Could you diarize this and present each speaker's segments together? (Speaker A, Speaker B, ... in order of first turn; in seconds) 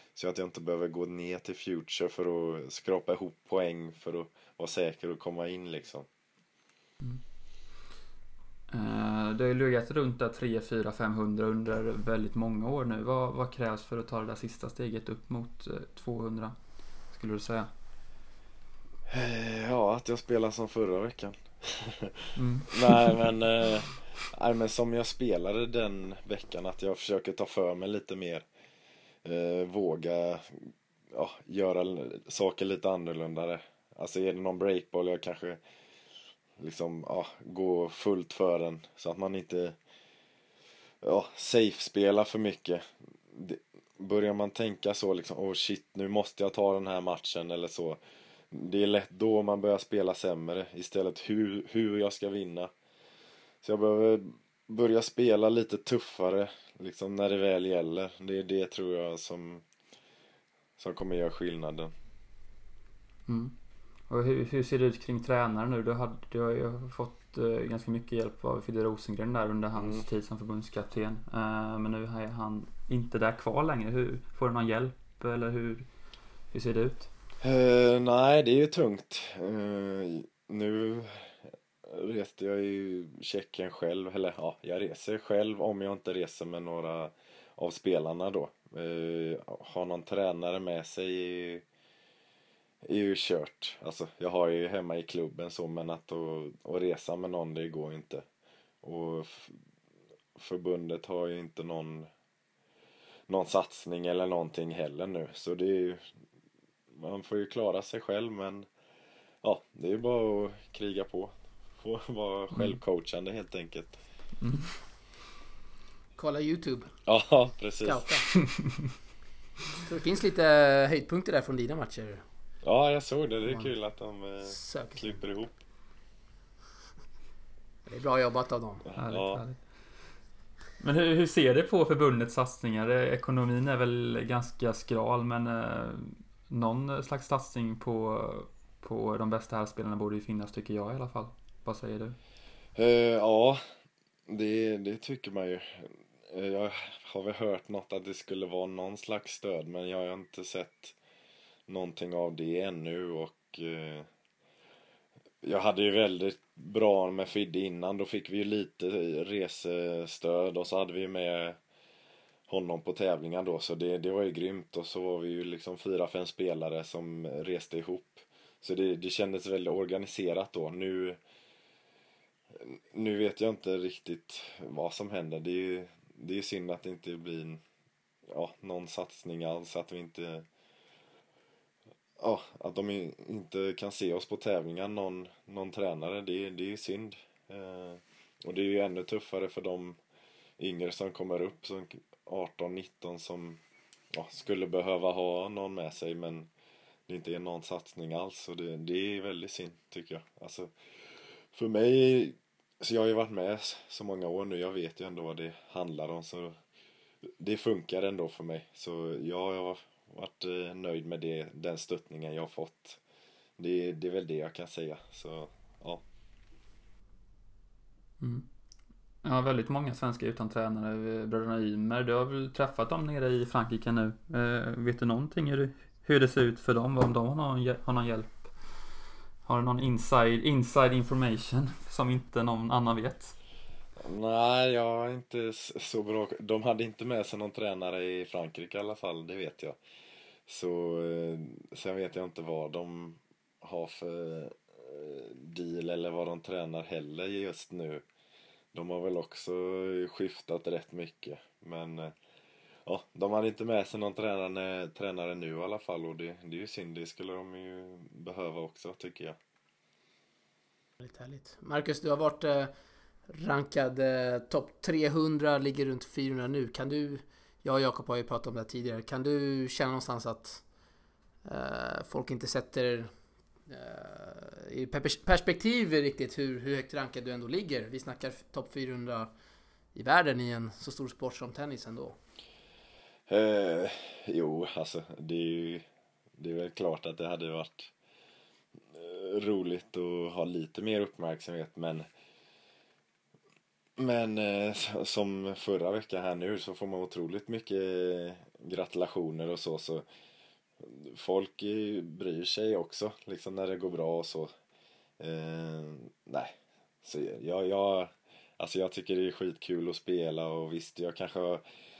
Speaker A: 0.1-6.1, 19.1-28.4, 29.2-35.6, 36.6-39.8, 41.0-48.0, 48.5-52.7, 53.6-59.6, 60.8-61.9, 69.7-70.0, 77.4-91.6, 92.8-98.2, 98.8-99.6, 100.3-102.1, 103.3-106.0, 106.9-108.7, 109.4-114.0, 117.0-118.1, 122.6-125.5, 128.8-129.4, 142.8-143.6, 144.3-150.9, 151.7-154.1, 155.4-161.6, 162.5-171.2, 172.5-177.6, 178.3-180.5, 182.2-190.0, 190.6-193.6, 194.1-196.5, 197.1-200.7, 201.5-206.6, 207.4-213.0, 213.6-216.0, 234.0-239.8, 240.5-248.0, 248.7-252.1, 252.8-259.4, 283.3-285.9, 286.4-287.9, 288.9-292.1, 294.0-300.0, 300.8-304.5, 305.2-311.6
Speaker B: 8.7-16.5, 17.1-17.7, 22.4-23.3, 63.3-63.5, 64.1-75.9, 76.5-77.1, 112.5-112.8, 114.4-114.7, 129.0-129.6, 130.8-142.2, 218.2-218.4, 219.2-228.8, 229.4-233.3
Speaker C: 116.2-116.9, 117.8-118.3, 119.8-122.2, 124.5-125.1, 127.9-128.8, 261.0-262.7, 263.3-270.6, 271.4-273.1, 273.7-279.3, 279.9-282.2